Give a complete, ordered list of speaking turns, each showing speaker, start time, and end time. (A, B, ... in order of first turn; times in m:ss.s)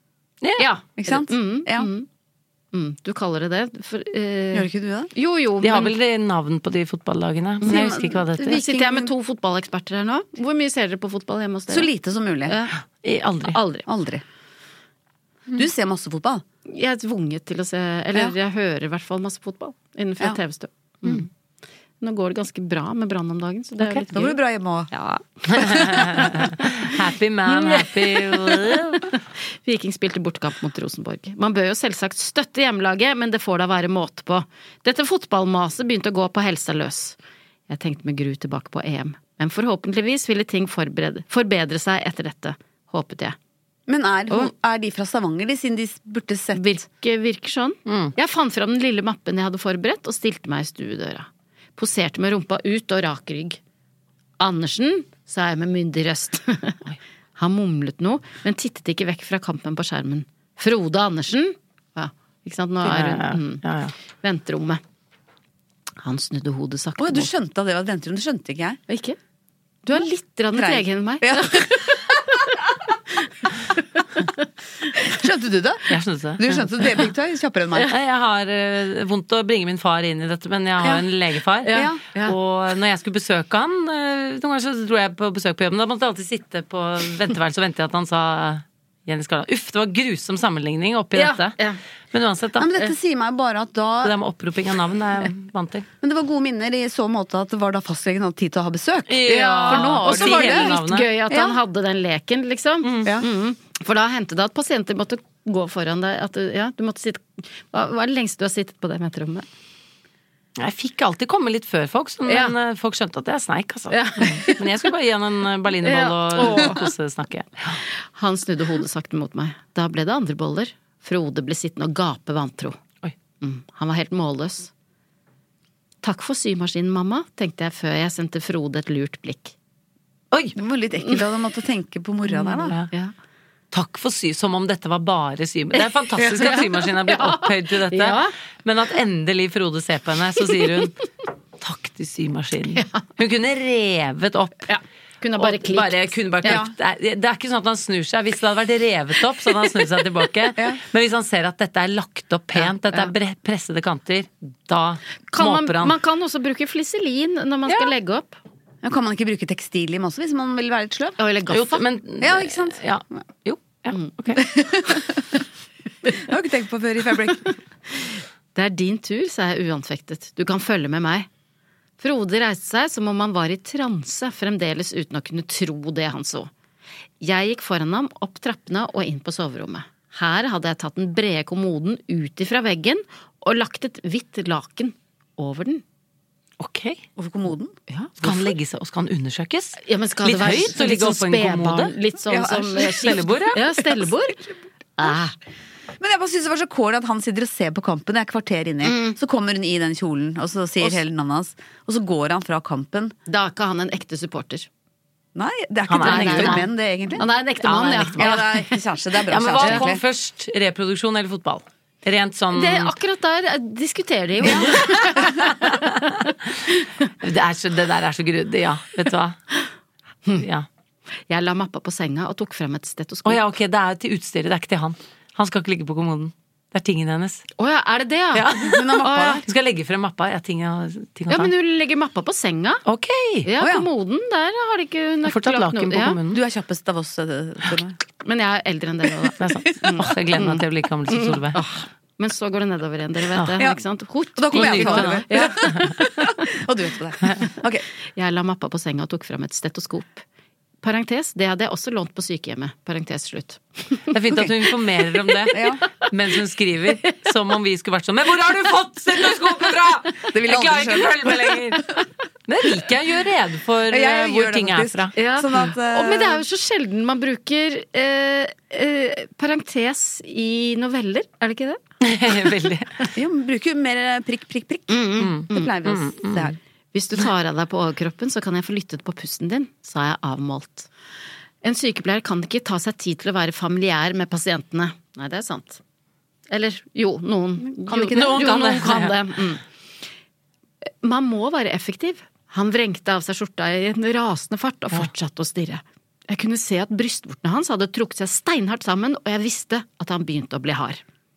0:00.4-0:00.7 A
0:00.6-0:02.1 B
0:01.0-0:01.9 C
0:02.7-0:06.0 B
0:04.5-0:05.1 C
0:05.6-0:08.6 A
0:07.6-0:09.1 C
0:08.4-0:11.9 B
0:11.7-0:12.6 C
0:12.5-0:12.8 B
0:13.0-0:13.6 A
0:13.5-0:13.9 B
0:13.9-0:14.2 C
0:15.6-0:16.4 C
0:16.7-0:21.3 B
0:22.0-0:24.4 B
0:24.1-0:24.9 C
0:24.9-0:27.0 B
0:25.5-0:29.1 A
0:25.7-0:26.5 C
0:27.5-0:37.2 B
0:37.7-0:43.4 B
0:43.9-0:46.8 C
0:46.5-0:53.6 B
0:47.9-0:48.1 A
0:54.4-0:56.8 B
0:57.4-1:03.6 B
1:02.8-1:03.9 A
1:04.2-1:04.8 B
1:06.0-1:07.3 B
1:07.0-1:08.8 C
1:08.9-1:09.2 B
1:09.8-1:12.5 B
1:10.6-1:12.2 C
1:14.0-1:14.3 B
1:15.0-1:17.9 C
1:15.9-1:16.6 A
1:17.9-1:31.6 A
1:21.6-1:22.4 B
1:21.7-1:22.0 C
1:31.2-1:31.8 B
1:32.1-1:32.8 A
1:32.6-1:34.1 C
1:34.0-1:35.9 A
1:36.0-1:40.8 C
1:39.1-1:41.1 A
1:39.2-1:49.5 B
1:41.3-1:41.6 C
1:42.8-1:43.1 A
1:50.6-1:57.8 A
1:52.3-1:52.5 B
1:53.9-1:54.6 B
1:55.8-1:56.9 B
1:58.0-2:02.8 B
2:03.4-2:04.7 B
2:06.0-2:09.6 B
2:10.6-2:12.8 C
2:12.3-2:13.1 B
2:13.7-2:21.0 A
2:16.2-2:16.7 C
2:16.4-2:18.3 B
2:21.6-2:24.7 A
2:22.8-2:23.0 B
2:24.7-2:26.6 B
2:25.4-2:36.0 A
2:26.4-2:26.7 C
2:32.6-2:33.1 B
2:35.3-2:38.4 B
2:37.7-2:37.9 A
2:38.8-2:41.2 C
2:41.2-2:41.8 B
2:41.5-2:44.4 A
2:42.2-2:42.8 C
2:44.4-2:45.4 C
2:46.1-2:47.5 C
2:48.0-2:51.3 B
2:52.0-2:56.5 B
2:57.2-3:05.8 B
3:06.6-3:07.0 A
3:07.2-3:07.8 C
3:07.9-3:08.3 B
3:08.2-3:11.9 A
3:09.8-3:14.4 B
3:12.3-3:15.2 C
3:12.8-3:13.6 A
3:15.0-3:15.3 B
3:16.0-3:23.1 C
3:18.8-3:19.2 B
3:23.3-3:24.7 B
3:25.4-3:27.2 C
3:25.9-3:26.7 A
3:26.0-3:28.8 B
3:27.6-3:28.4 A
3:28.2-3:30.0 C
3:29.3-3:32.9 A
3:29.6-3:29.9 B
3:32.5-3:35.5 B
3:34.4-3:35.5 C
3:34.5-3:36.5 A
3:37.2-3:39.4 A
3:40.4-3:40.7 A
3:41.3-3:43.4 B
3:43.2-3:47.5 A
3:47.6-3:48.5 B
3:48.3-3:51.5 A
3:48.6-3:49.4 C
3:49.0-3:49.4 B
3:51.3-3:52.8 B
3:52.8-3:53.5 A
3:53.4-3:56.2 B
3:53.6-3:53.9 C
3:55.2-3:56.4 A
3:56.3-3:58.0 C
3:58.2-4:06.4 B
3:59.4-4:01.6 A
4:04.4-4:07.9 C
4:04.5-4:05.9 A
4:08.1-4:10.2 B
4:10.8-4:14.4 B
4:14.1-4:21.9 A
4:15.5-4:15.8 C
4:20.3-4:21.6 C
4:22.5-4:25.1 A
4:23.9-4:26.4 C
4:25.2-4:31.8 B
4:32.0-4:33.1 A
4:33.1-4:36.6 C
4:34.9-4:35.7 B
4:35.2-4:36.5 A
4:36.9-4:40.9 B
4:41.6-4:45.8 B
4:46.5-4:49.6 B
4:47.6-4:48.5 C
4:48.1-4:49.3 A
4:50.9-5:01.0 B